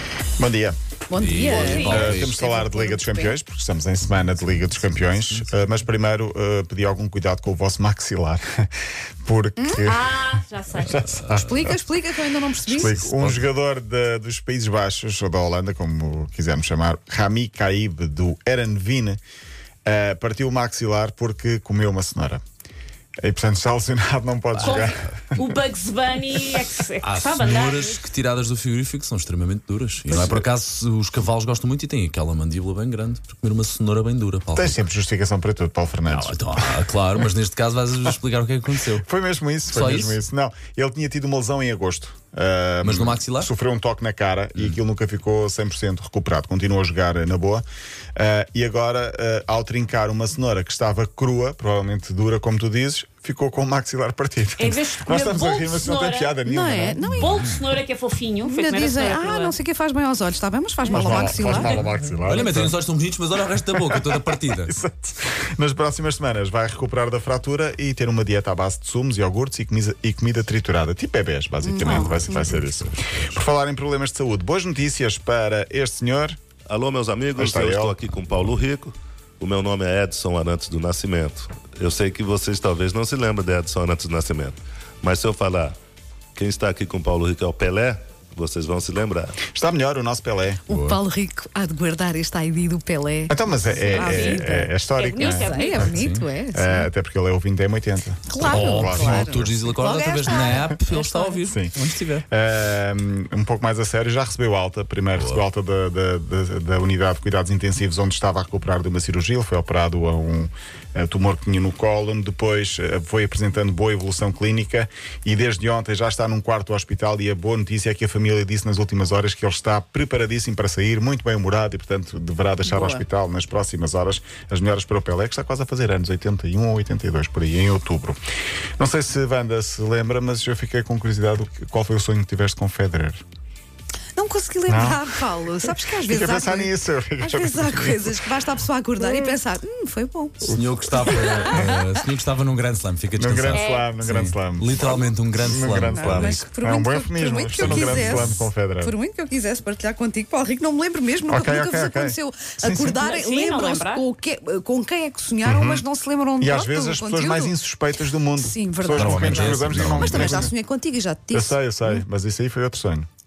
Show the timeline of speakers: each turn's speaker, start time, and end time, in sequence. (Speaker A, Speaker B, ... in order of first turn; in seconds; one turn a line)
Speaker A: 0.4-0.8
Speaker B: 1.1-3.4
Speaker C: 1.2-2.3
Speaker D: 1.4-2.2
Speaker A: 1.7-8.7
Speaker C: 4.8-5.6
Speaker A: 9.2-10.3
Speaker B: 9.6-9.8
Speaker D: 9.8-11.1
Speaker A: 10.8-11.7
Speaker B: 11.3-13.0
Speaker A: 12.7-19.2
Speaker C: 12.8-13.5
Speaker A: 19.9-22.4
Speaker A: 23.2-25.4
Speaker C: 24.6-25.0
Speaker D: 24.6-28.0
Speaker C: 27.0-34.8
Speaker A: 30.1-30.4
Speaker A: 34.5-36.9
Speaker C: 36.1-39.1
Speaker A: 39.0-47.6
Speaker C: 39.7-40.2
Speaker C: 42.8-43.5
Speaker A: 48.2-57.4
Speaker D: 54.6-56.4
Speaker B: 56.5-57.4
Speaker D: 57.2-59.5
Speaker C: 57.2-57.6
Speaker B: 58.4-61.9
Speaker A: 60.9-62.7
Speaker C: 62.2-64.7
Speaker A: 63.7-76.4
Speaker B: 71.6-72.7
Speaker E: 76.7-85.8
Speaker A: 77.4-78.0
Speaker E: 86.4-89.4
Speaker A: 89.5-90.6
Speaker B: 90.7-96.9
Speaker C: 90.7-91.0
Speaker A: 93.3-96.0
Speaker D: 93.8-94.5
Speaker D: 95.0-95.9
Speaker C: 95.9-96.3
Speaker A: 96.5-99.5
Speaker B: 98.3-101.5
Speaker C: 98.4-102.2
Speaker A: 101.5-101.7
Speaker A: 102.3-128.2
Speaker C: 105.2-105.4
Speaker B: 122.7-123.0
Speaker A: 128.8-133.2
Speaker B: 134.2-142.0
Speaker A: 134.7-135.1
Speaker A: 135.9-138.3
Speaker A: 140.4-141.7
Speaker C: 140.4-146.4
Speaker A: 143.2-148.9
Speaker D: 143.5-143.9
Speaker B: 144.8-157.5
Speaker C: 147.6-148.3
Speaker A: 151.3-153.0
Speaker D: 153.0-154.0
Speaker A: 155.4-155.8
Speaker A: 156.4-160.5
Speaker B: 158.4-162.0
Speaker C: 158.9-160.5
Speaker A: 161.3-163.1